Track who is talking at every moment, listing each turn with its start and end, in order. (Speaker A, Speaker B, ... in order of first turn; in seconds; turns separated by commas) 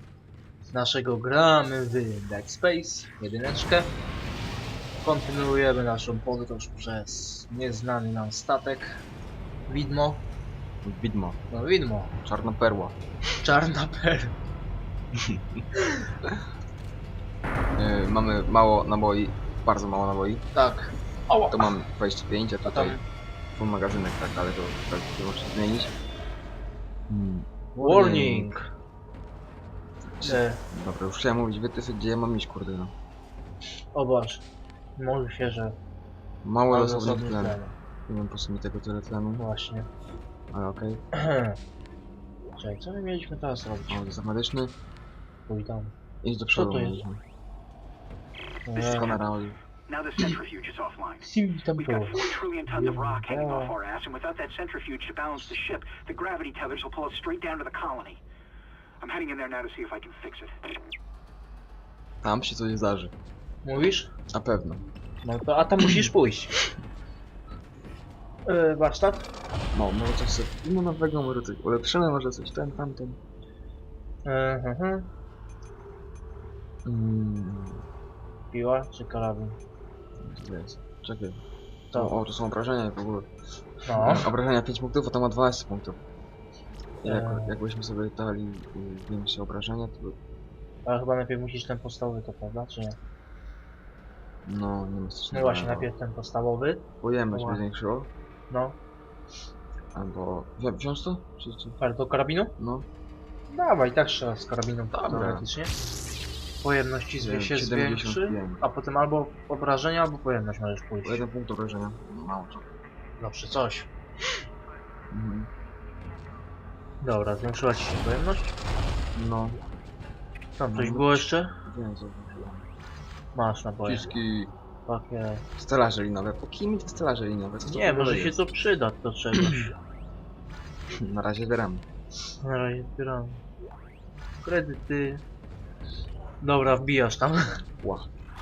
Speaker A: 0.7-3.9, Speaker A: 5.0-9.0, Speaker A: 9.7-10.2, Speaker B: 10.8-11.4, Speaker A: 11.5-12.1, Speaker B: 12.2-12.9, Speaker A: 13.4-14.3, Speaker B: 15.2-15.6, Speaker B: 17.8-20.4, Speaker A: 20.5-21.7, Speaker B: 21.5-23.0, Speaker A: 22.7-23.0, Speaker B: 23.5-25.9, Speaker B: 27.1-28.6, Speaker A: 27.7-28.7, Speaker B: 30.1-32.9, Speaker A: 30.2-30.6, Speaker A: 33.9-34.4, Speaker A: 35.0-35.8, Speaker B: 36.4-39.4, Speaker A: 36.7-37.7, Speaker A: 39.4-39.9, Speaker B: 40.5-41.0, Speaker A: 41.1-41.6, Speaker A: 42.6-44.0, Speaker B: 43.9-44.7, Speaker A: 45.5-45.9, Speaker B: 46.2-47.2, Speaker A: 46.5-47.0, Speaker A: 48.6-49.2, Speaker B: 48.7-49.6, Speaker C: 49.9-51.2, Speaker A: 51.2-53.8, Speaker C: 51.8-58.2, Speaker C: 59.0-60.5, Speaker B: 62.2-63.1, Speaker A: 63.6-64.1, Speaker B: 64.3-64.8, Speaker A: 65.2-66.5, Speaker A: 68.4-69.3, Speaker B: 69.7-73.2, Speaker A: 74.2-75.1, Speaker B: 76.8-77.8, Speaker A: 78.5-79.6, Speaker B: 80.2-81.4, Speaker B: 81.9-83.3, Speaker A: 83.8-84.3, Speaker B: 84.0-86.0, Speaker B: 87.0-90.2, Speaker A: 87.0-87.5, Speaker A: 90.8-93.0, Speaker B: 94.4-95.9, Speaker A: 95.3-97.6, Speaker B: 97.0-98.1, Speaker A: 98.5-98.8, Speaker B: 99.9-101.8, Speaker A: 101.8-102.5, Speaker B: 102.6-102.8, Speaker A: 103.5-105.7, Speaker B: 104.9-105.4, Speaker A: 106.6-111.2, Speaker B: 107.2-108.6, Speaker B: 111.0-112.7, Speaker A: 113.2-113.9, Speaker B: 115.1-115.5, Speaker A: 117.0-118.5, Speaker B: 119.1-119.6, Speaker A: 120.6-121.5, Speaker B: 120.7-122.7, Speaker A: 123.3-124.2, Speaker B: 123.8-124.5, Speaker A: 124.9-125.4, Speaker B: 125.6-128.4, Speaker A: 127.7-129.7, Speaker B: 129.3-129.7, Speaker B: 131.0-131.8, Speaker A: 132.4-133.4, Speaker A: 134.4-135.2, Speaker A: 136.4-137.6, Speaker B: 137.8-138.1